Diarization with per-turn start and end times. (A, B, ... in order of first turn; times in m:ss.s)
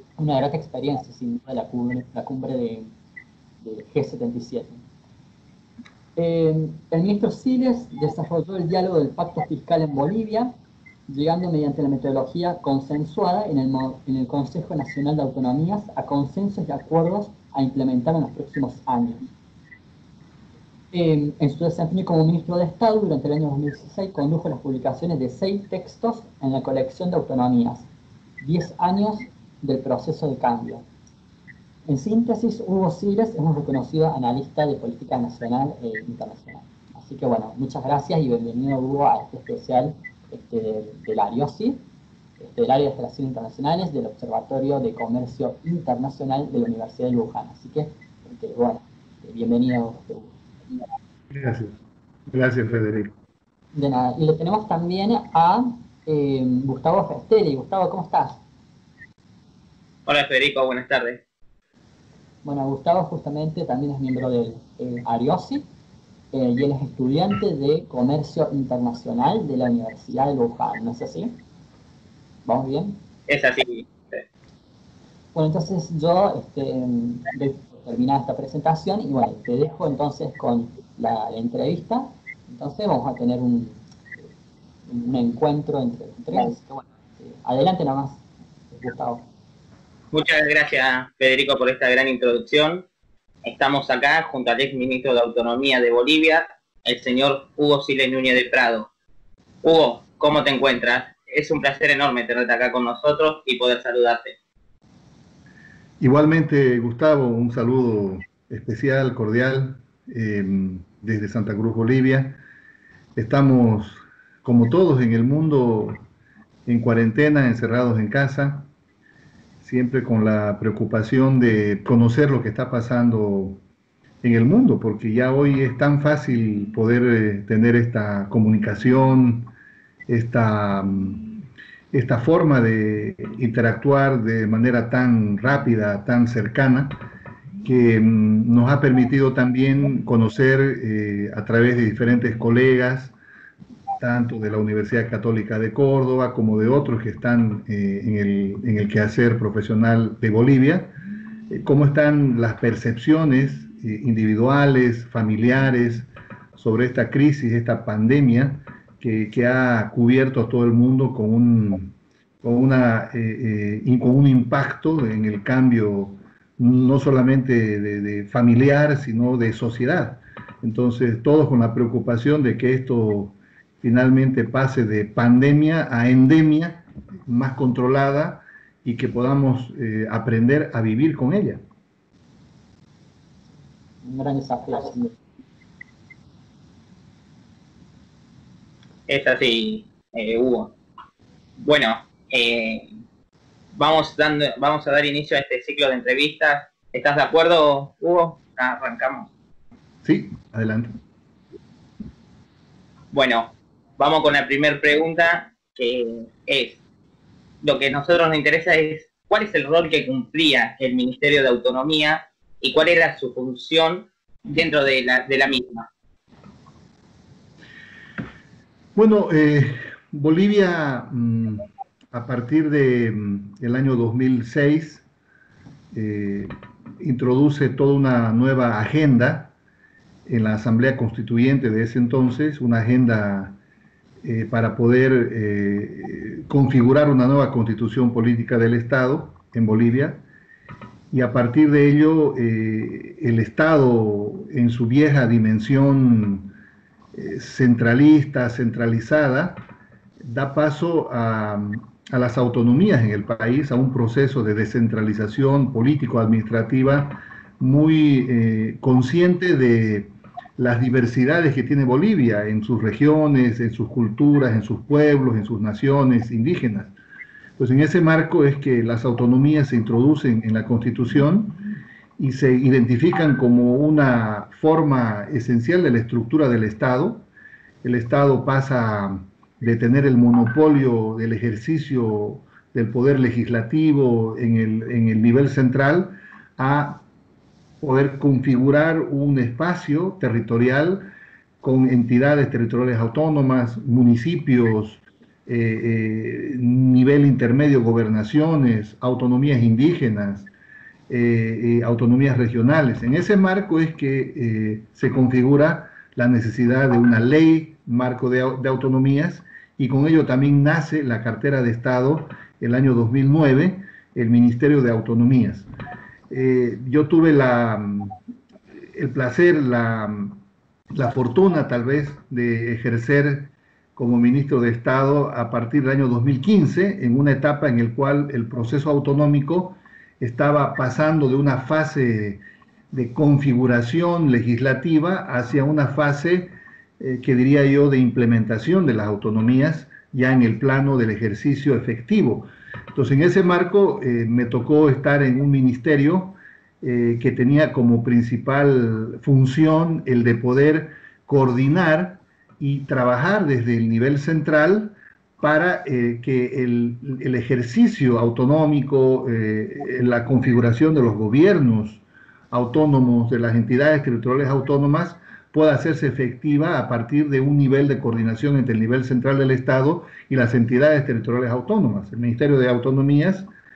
0:00.2-0:02.9 A
0:03.6-0:04.8 A
0:06.2-0:10.6 A
0:11.1-0:19.3 A
0:20.9-0:27.9 A
0:28.4-0:30.8 A
0:31.9-0:41.8 A
0:42.4-0:50.4 A
0:51.3-0:51.8 B
0:52.3-0:53.1 B
0:53.7-0:58.4 A
1:00.1-1:01.2 C
1:02.4-1:05.7 A
1:06.3-1:11.4 A
1:12.4-1:13.0 A
1:13.3-1:14.2 C
1:15.3-1:23.8 A
1:24.9-1:28.2 A
1:28.7-1:29.3 A
1:30.1-1:32.8 C
1:33.4-1:38.9 C
1:39.6-1:44.4 C
1:46.0-1:52.4 B
1:53.2-1:56.0 B
1:56.7-1:58.7 B
1:59.6-2:03.6 B
2:04.2-2:09.5 B
2:10.1-2:11.2 B
2:11.9-2:17.0 B
2:17.6-2:23.1 B
2:24.0-2:30.9 B
2:31.5-3:01.6 B
3:04.0-3:05.2 A
3:09.1-3:10.7 C
3:11.6-3:12.9 C
3:13.8-3:19.3 C
3:20.0-3:20.9 B
3:23.1-3:26.8 C
3:27.6-3:35.9 C
3:39.0-3:45.0 B
3:45.9-3:49.5 B
3:50.3-3:53.6 B
3:54.2-4:00.2 B
4:01.1-4:06.5 B
4:07.1-4:09.6 B
4:10.2-4:26.9 B
4:27.6-4:31.6 B
4:32.2-4:37.2 B
4:37.8-4:47.0 B
4:47.8-4:51.1 B
4:51.6-5:00.5 B
5:01.1-5:15.7 B
5:16.3-5:18.2 B
5:18.9-5:20.4 B
5:20.9-5:32.4 B
5:32.9-6:13.5 B